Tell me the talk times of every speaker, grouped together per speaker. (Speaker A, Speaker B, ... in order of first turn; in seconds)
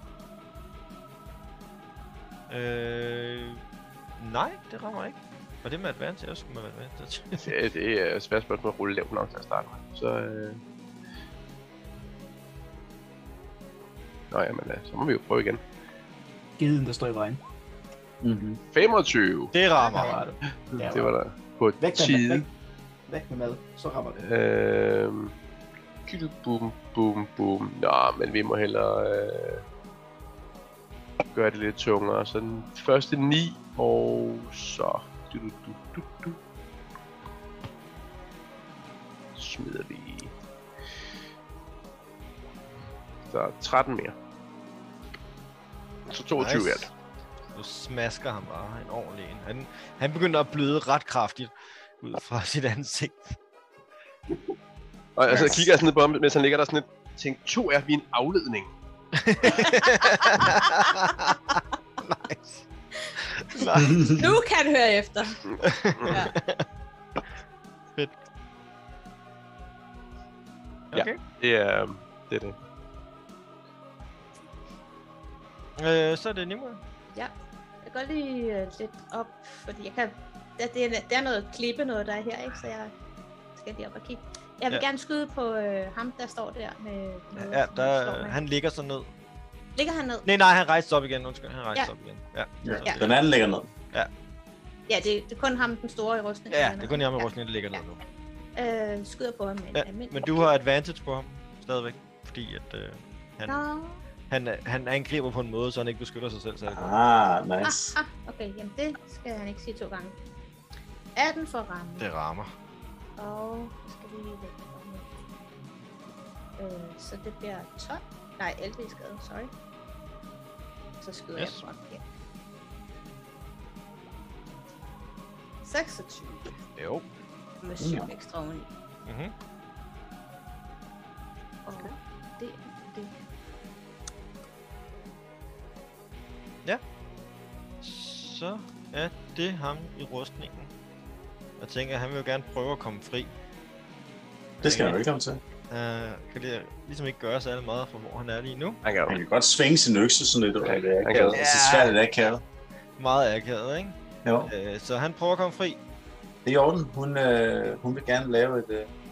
Speaker A: 2.5-3.6, 4.2-7.5, 19.5-20.2, 46.4-46.9, 47.5-53.4, 55.2-55.7, 59.1-61.4, 62.0-62.6, 63.4-64.2, 65.6-66.6, 70.9-71.2, 75.8-76.8, 87.3-89.1, 90.2-93.2, 96.5-98.0, 99.7-103.6, 104.3-106.9, 112.0-112.5, 121.4-121.6, 126.8-127.1, 129.1-129.3, 137.8-140.7, 141.6-143.3, 144.6-145.0, 145.7-148.8, 151.1-151.9, 153.0-155.8
Speaker B: 7.4-10.6, 14.3-15.6, 18.7-22.4, 24.2-25.3, 26.1-29.6, 31.3-36.4, 39.4-40.3, 43.3-44.1, 46.1-46.9, 55.1-58.7, 70.9-72.5, 148.8-149.2, 150.6-151.4
Speaker C: 16.6-17.4, 19.9-21.1, 21.8-22.5, 23.1-24.2
Speaker D: 18.2-18.6, 92.6-93.7, 106.7-108.0, 127.8-128.1, 144.6-145.4, 149.1-152.4, 154.2-154.5, 156.4-158.9
Speaker E: 59.5-61.2, 63.6-65.4, 66.0-66.3, 77.1-82.9, 83.6-88.4, 89.8-90.2, 94.9-97.8, 98.5-100.5, 103.5-104.0, 107.6-110.2, 111.2-112.0, 113.2-115.2, 116.6-119.5, 121.0-122.0, 125.6-126.5, 127.6-128.7, 131.7-133.2